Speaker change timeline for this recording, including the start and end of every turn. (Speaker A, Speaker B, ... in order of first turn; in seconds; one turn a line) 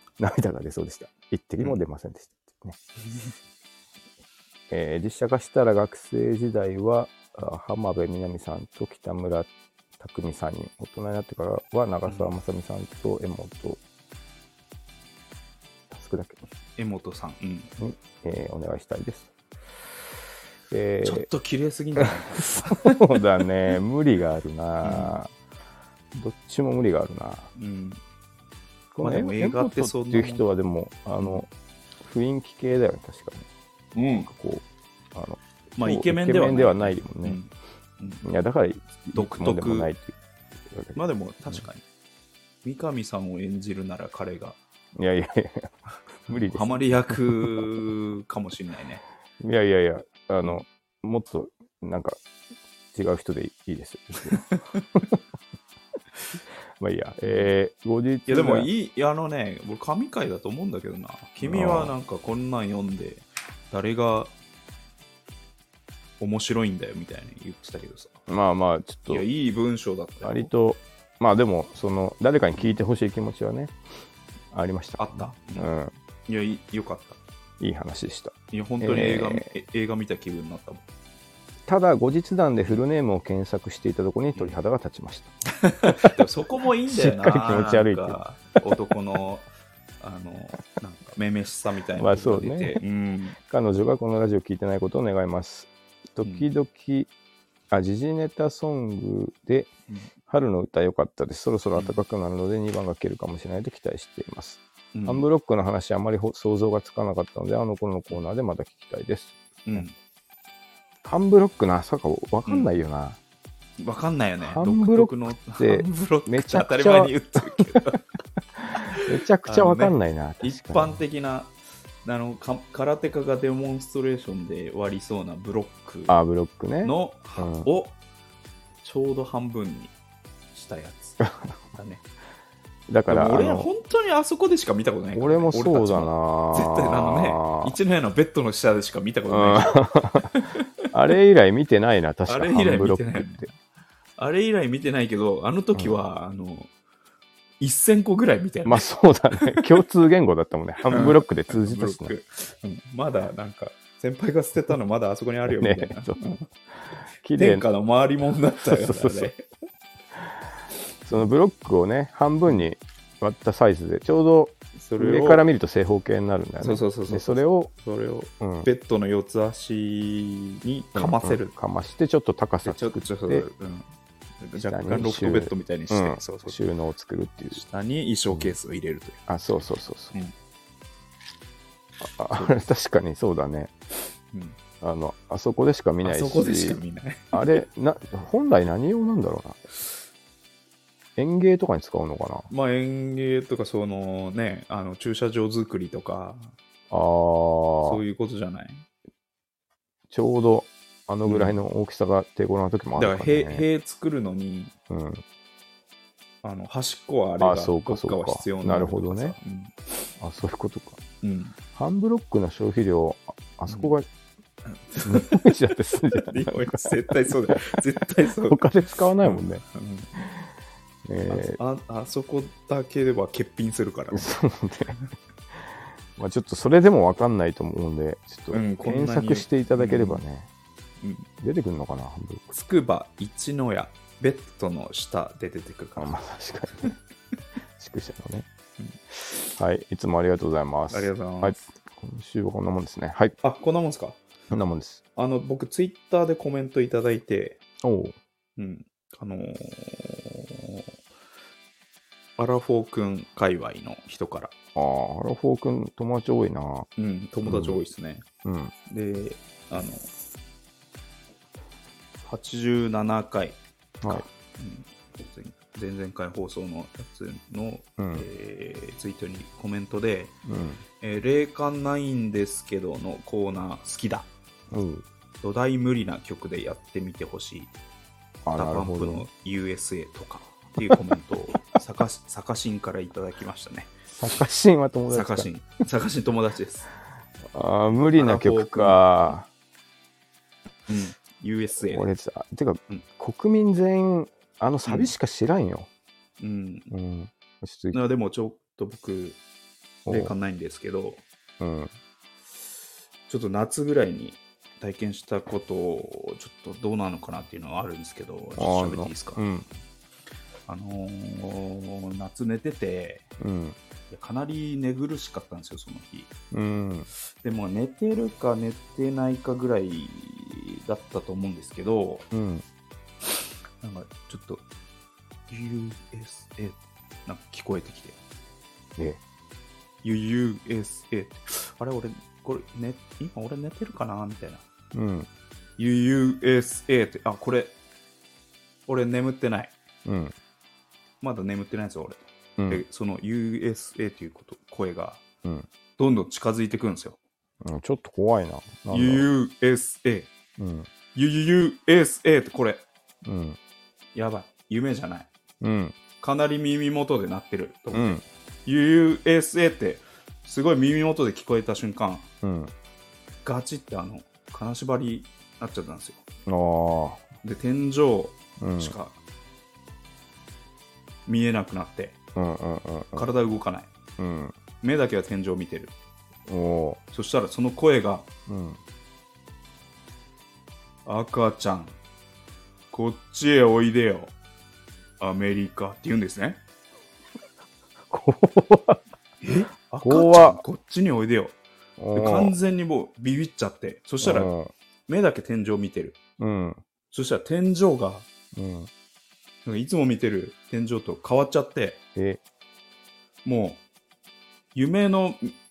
Speaker A: 0.2-2.8
Speaker A: 4.7-13.8
Speaker B: 12.1-12.3
Speaker A: 15.9-16.4
Speaker B: 16.8-17.7
Speaker A: 17.8-19.3
Speaker A: 20.7-21.3
Speaker B: 21.0-23.2
Speaker A: 22.4-25.3
Speaker B: 24.8-25.2
Speaker A: 26.1-27.5
Speaker B: 27.6-28.0
Speaker A: 28.9-31.5
Speaker B: 29.0-30.4
Speaker A: 32.0-33.5
Speaker B: 33.9-34.3
Speaker A: 34.2-37.4
Speaker B: 35.8-38.2
Speaker A: 38.2-40.2
Speaker B: 39.1-39.9
Speaker A: 40.7-41.6
Speaker B: 40.9-41.8
Speaker B: 42.6-44.6
Speaker A: 44.9-47.7
Speaker B: 46.5-49.0
Speaker A: 49.4-52.2
Speaker A: 52.9-54.5
Speaker B: 54.3-55.0
Speaker A: 56.8-58.7
Speaker B: 57.2-57.5
Speaker B: 58.3-64.3
Speaker A: 61.4-61.9
Speaker B: 66.2-68.2
Speaker A: 68.3-69.2
Speaker B: 69.1-70.5
Speaker A: 70.2-73.7
Speaker A: 74.5-75.9
Speaker B: 75.0-75.7
Speaker B: 76.3-77.2
Speaker A: 77.6-79.5
Speaker B: 78.5-80.8
Speaker A: 81.7-85.3
Speaker B: 85.6-89.5
Speaker A: 85.9-86.1
Speaker A: 86.9-88.2
Speaker B: 90.0-93.4
Speaker A: 92.0-92.8
Speaker A: 93.4-97.1
Speaker B: 96.2-96.5
Speaker A: 97.7-99.7
Speaker A: 100.3-109.9
Speaker B: 101.7-102.0
Speaker B: 104.9-105.2
Speaker B: 109.7-109.9
Speaker A: 111.0-113.2
Speaker B: 113.8-118.0
Speaker A: 114.4-117.7
Speaker A: 118.6-121.0
Speaker B: 118.7-126.2
Speaker A: 126.1-127.7
Speaker B: 126.8-127.9
Speaker B: 128.8-129.9
Speaker B: 130.5-132.0
Speaker A: 131.2-131.5
Speaker A: 132.9-133.7
Speaker B: 133.1-140.7
Speaker A: 135.1-137.8
Speaker A: 139.3-140.4
Speaker A: 140.9-143.4
Speaker B: 142.3-143.5
Speaker B: 144.2-146.7
Speaker B: 147.6-148.8
Speaker A: 148.6-152.1
Speaker B: 149.4-149.7
Speaker B: 150.9-156.5
Speaker A: 155.5-156.2
Speaker A: 157.2-157.7
Speaker B: 157.3-159.4
Speaker A: 158.6-159.3
Speaker A: 161.1-167.7
Speaker B: 164.8-165.4
Speaker B: 166.6-171.6
Speaker A: 168.4-168.7
Speaker A: 170.9-173.5
Speaker B: 172.6-173.9
Speaker B: 174.4-176.6
Speaker A: 174.6-177.6
Speaker B: 177.5-179.2
Speaker A: 179.3-180.1
Speaker A: 182.0-183.7
Speaker A: 184.8-186.8
Speaker B: 186.0-187.6
Speaker A: 187.3-189.6
Speaker A: 191.2-192.5
Speaker B: 192.5-196.5
Speaker A: 196.9-198.0
Speaker B: 197.8-198.8
Speaker A: 200.1-203.6
Speaker B: 201.2-201.6
Speaker B: 203.0-204.7
Speaker A: 204.9-205.2
Speaker B: 206.4-209.9
Speaker A: 207.4-209.3
Speaker A: 210.2-211.0
Speaker B: 211.2-211.6
Speaker A: 211.7-214.1
Speaker B: 214.7-215.6
Speaker A: 215.0-217.7
Speaker B: 216.1-218.7
Speaker A: 218.4-219.6
Speaker B: 219.2-220.2
Speaker A: 221.1-221.6
Speaker B: 221.3-224.3
Speaker A: 224.1-225.0
Speaker A: 225.5-230.5
Speaker B: 228.5-230.2
Speaker B: 231.0-231.3
Speaker A: 231.4-232.5
Speaker B: 232.5-236.2
Speaker A: 235.9-236.9
Speaker A: 237.8-238.4
Speaker A: 239.6-243.4
Speaker B: 240.9-241.6
Speaker B: 243.4-244.2
Speaker A: 244.5-245.0
Speaker B: 245.2-247.6
Speaker A: 247.8-248.2
Speaker B: 248.6-250.9
Speaker B: 252.4-254.5
Speaker A: 254.7-256.9
Speaker B: 257.0-258.2
Speaker A: 257.4-257.8
Speaker A: 258.4-258.7
Speaker B: 258.9-260.1
Speaker B: 262.2-270.4
Speaker A: 268.0-268.2
Speaker A: 270.4-270.8
Speaker B: 271.0-274.3
Speaker A: 274.7-275.1
Speaker B: 275.4-277.7
Speaker A: 278.4-279.3
Speaker B: 278.6-283.9
Speaker A: 284.1-285.5
Speaker B: 285.1-286.9
Speaker A: 287.5-289.5
Speaker B: 287.9-289.0
Speaker B: 290.9-292.1
Speaker A: 291.9-295.9
Speaker B: 294.9-295.1
Speaker B: 296.4-296.9
Speaker A: 296.9-298.0
Speaker B: 297.9-299.4
Speaker A: 300.1-300.3
Speaker B: 300.1-301.2
Speaker A: 301.6-301.9
Speaker B: 303.3-309.4
Speaker A: 308.6-309.6
Speaker B: 310.7-313.2
Speaker A: 313.4-313.8
Speaker B: 314.1-316.3
Speaker A: 316.5-317.1
Speaker B: 317.4-322.3
Speaker A: 322.3-322.6
Speaker B: 323.8-324.6
Speaker B: 325.5-328.2
Speaker B: 330.0-334.6
Speaker A: 334.9-335.3
Speaker B: 335.8-337.7
Speaker B: 338.9-339.7
Speaker A: 340.1-340.3
Speaker B: 341.2-345.2
Speaker B: 346.0-347.2
Speaker A: 347.6-349.3
Speaker B: 348.9-350.3
Speaker A: 350.6-350.9
Speaker B: 351.1-352.8
Speaker A: 353.2-353.6
Speaker B: 354.1-355.3
Speaker A: 355.6-355.9
Speaker B: 356.2-362.3
Speaker A: 357.9-358.2
Speaker A: 362.4-362.7
Speaker B: 363.4-366.2
Speaker A: 366.4-367.2
Speaker B: 367.4-369.2
Speaker A: 368.6-368.9
Speaker B: 371.2-372.2
Speaker A: 372.4-373.3
Speaker B: 373.1-373.9
Speaker A: 374.2-374.5
Speaker B: 374.8-375.9
Speaker A: 376.5-377.0
Speaker B: 377.1-378.3
Speaker A: 378.5-378.8
Speaker B: 381.1-381.9
Speaker B: 382.9-384.3
Speaker B: 385.2-386.6
Speaker A: 388.1-389.0
Speaker B: 389.4-391.6
Speaker A: 390.0-390.6
Speaker A: 392.0-392.6
Speaker B: 392.1-394.5
Speaker A: 394.2-394.7
Speaker B: 395.1-396.2
Speaker A: 396.4-396.8
Speaker B: 397.1-398.3
Speaker A: 398.5-398.9
Speaker B: 399.6-402.0
Speaker B: 403.4-403.8
Speaker B: 404.7-405.5